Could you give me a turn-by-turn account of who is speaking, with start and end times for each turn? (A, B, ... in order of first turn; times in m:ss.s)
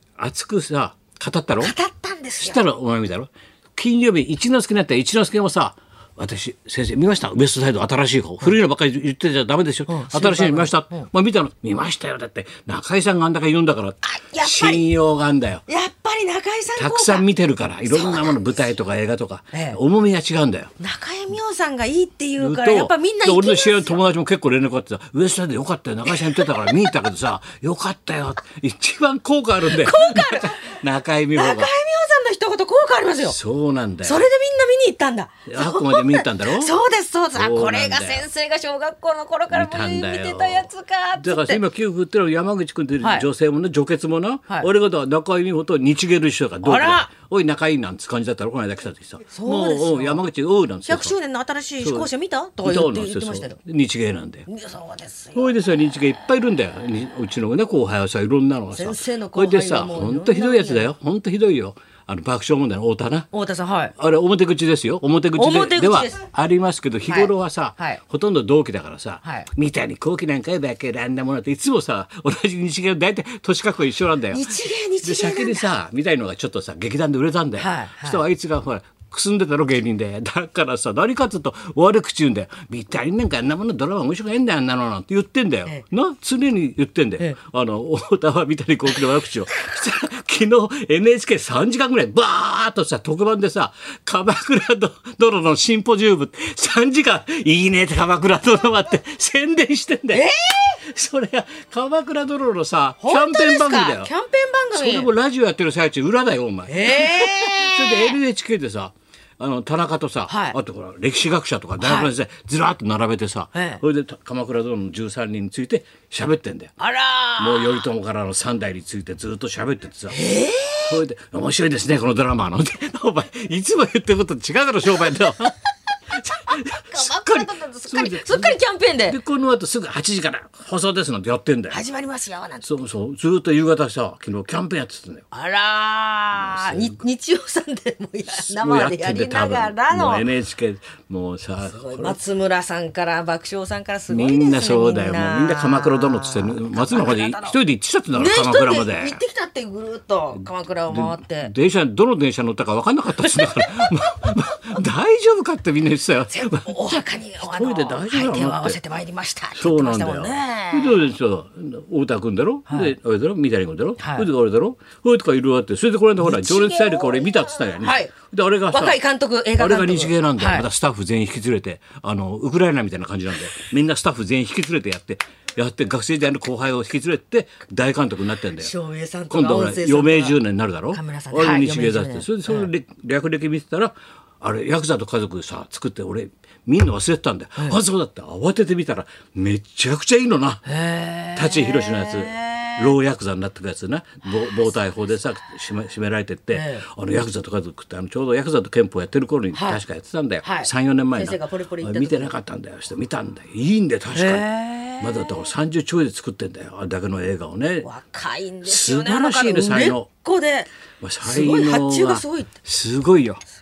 0:00.2-0:01.7 A
0:01.6-0:02.6 B
0:02.4-0:15.6 A
0:09.9-0:11.1 B
0:14.0-0:14.8 B
0:15.7-0:17.3 B
0:16.8-0:20.7 A
0:17.9-0:18.4 B
0:19.5-0:19.8 B
0:20.8-0:24.0 B
0:22.4-0:31.7 A
0:26.1-0:26.9 B
0:29.6-0:30.7 B
0:31.4-0:33.4 B
0:33.2-0:34.2 A
0:34.0-0:41.6 B
0:35.5-0:36.7 A
0:37.4-0:38.3 A
0:39.5-0:51.1 A
0:43.0-0:43.3 B
0:46.6-0:47.1 B
0:49.3-0:50.2 B
0:50.9-0:53.6 B
0:51.8-0:52.1 A
0:52.6-0:54.5 A
0:54.5-0:55.6 B
0:55.4-1:03.3 A
0:58.7-1:00.9 B
1:03.3-1:04.0 B
1:04.0-1:40.3 A
1:05.4-1:06.3 B
1:07.1-1:08.0 B
1:14.3-1:15.7 B
1:17.6-1:18.2 B
1:40.1-1:40.8 B
1:40.8-1:44.1 A
1:43.0-1:45.1 B
1:44.7-1:56.7 A
1:46.7-1:48.2 B
1:50.3-1:50.6 B
1:51.8-1:52.1 B
1:53.6-1:53.8 B
1:56.8-1:57.9 B
1:57.4-2:00.2 A
2:00.1-2:01.0 B
2:00.9-2:05.6 A
2:06.1-2:11.8 A
2:06.5-2:09.2 B
2:11.7-2:12.7 B
2:12.6-2:15.3 A
2:15.3-2:20.3 B
2:16.4-2:17.0 A
2:18.3-2:22.2 A
2:21.6-2:27.6 B
2:24.1-2:29.2 A
2:28.1-2:31.5 B
2:30.4-2:38.8 A
2:33.4-2:33.9 B
2:36.3-2:41.0 B
2:39.6-2:49.0 A
2:42.7-2:42.9 B
2:44.0-2:44.3 B
2:46.2-2:48.1 B
2:48.7-2:50.7 B
2:49.6-2:58.7 A
2:58.6-3:00.4 B
2:59.3-3:10.7 A
3:00.9-3:02.7 B
3:10.7-3:12.9 B
3:11.4-3:24.5 A
3:16.5-3:16.8 B
3:19.5-3:19.8 B
3:20.4-3:22.3 B
3:24.1-3:25.5 B
3:25.0-3:27.9 A
3:27.8-3:30.7 B
3:28.6-3:30.1 A
3:31.0-3:33.4 A
3:31.2-3:32.5 B